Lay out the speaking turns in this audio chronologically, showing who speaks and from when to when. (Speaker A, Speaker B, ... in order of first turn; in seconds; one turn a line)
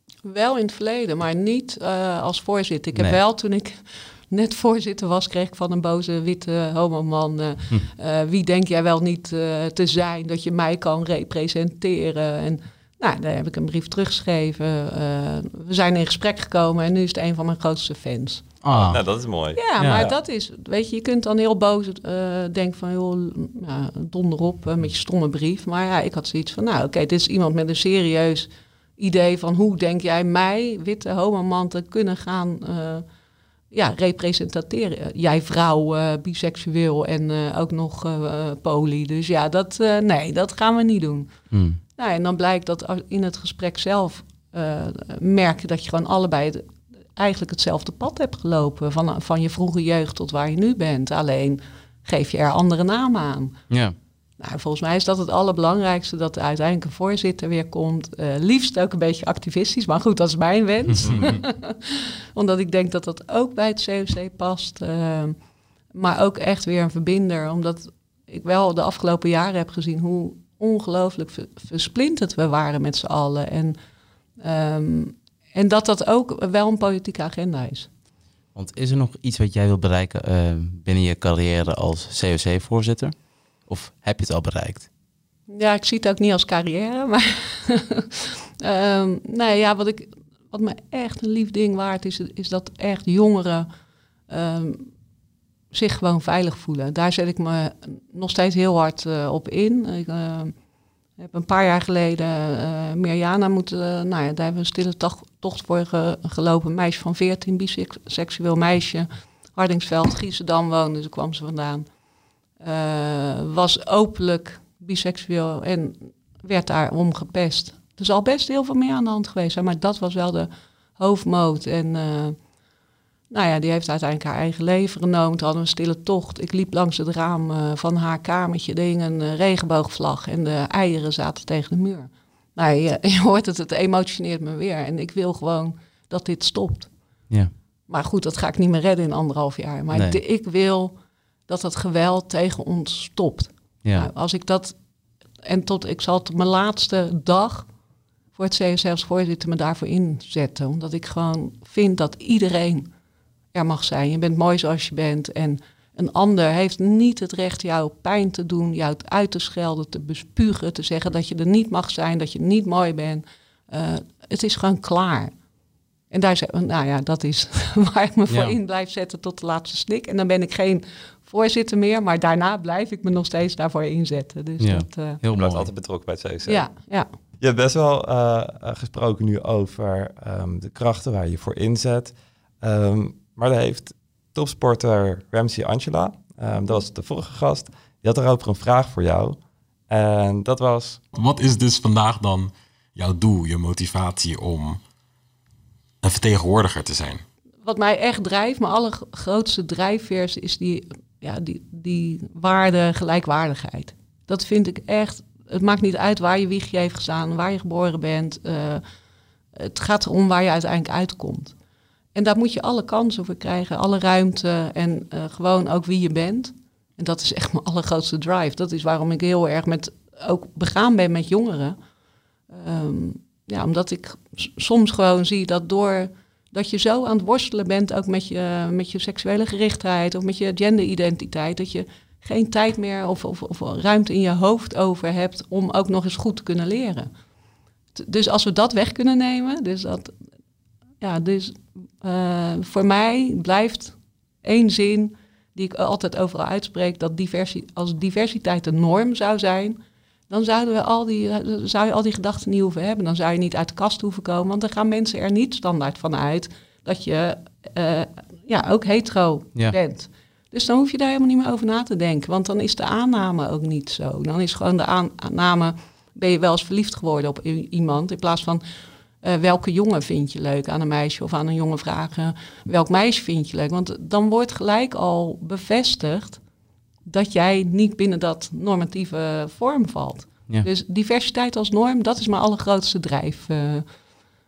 Speaker A: 0.2-18.4
Speaker B: 18.6-19.0
Speaker C: 18.7-20.1
Speaker A: 19.6-33.0
Speaker B: 19.8-20.1
Speaker A: 33.7-41.3
Speaker B: 41.5-41.8
Speaker A: 42.0-53.6
Speaker B: 53.7-54.0
Speaker A: 54.4-65.4
Speaker B: 61.0-61.3
Speaker A: 65.9-73.8
Speaker A: 74.4-77.9
Speaker B: 78.5-83.1
Speaker B: 83.7-84.9
Speaker A: 85.5-93.7
Speaker A: 94.3-94.9
Speaker A: 95.7-100.5
Speaker A: 101.2-111.9
Speaker A: 112.6-122.4
Speaker A: 123.3-136.9
Speaker A: 137.9-140.9
Speaker B: 139.9-140.2
Speaker A: 141.5-144.8
Speaker B: 143.8-144.1
Speaker A: 145.4-147.7
Speaker A: 148.3-152.9
Speaker A: 153.5-165.3
Speaker A: 166.1-175.2
Speaker B: 168.3-168.6
Speaker B: 174.6-175.7
Speaker C: 175.3-176.7
Speaker A: 176.5-177.1
Speaker C: 177.4-189.4
Speaker C: 189.9-191.0
Speaker D: 191.1-194.8
Speaker D: 196.0-197.2
Speaker A: 197.6-208.8
Speaker A: 209.6-211.6
Speaker A: 212.2-221.8
Speaker A: 222.5-237.1
Speaker A: 237.9-240.1
Speaker A: 241.0-268.6
Speaker A: 269.2-276.4
Speaker A: 277.1-283.9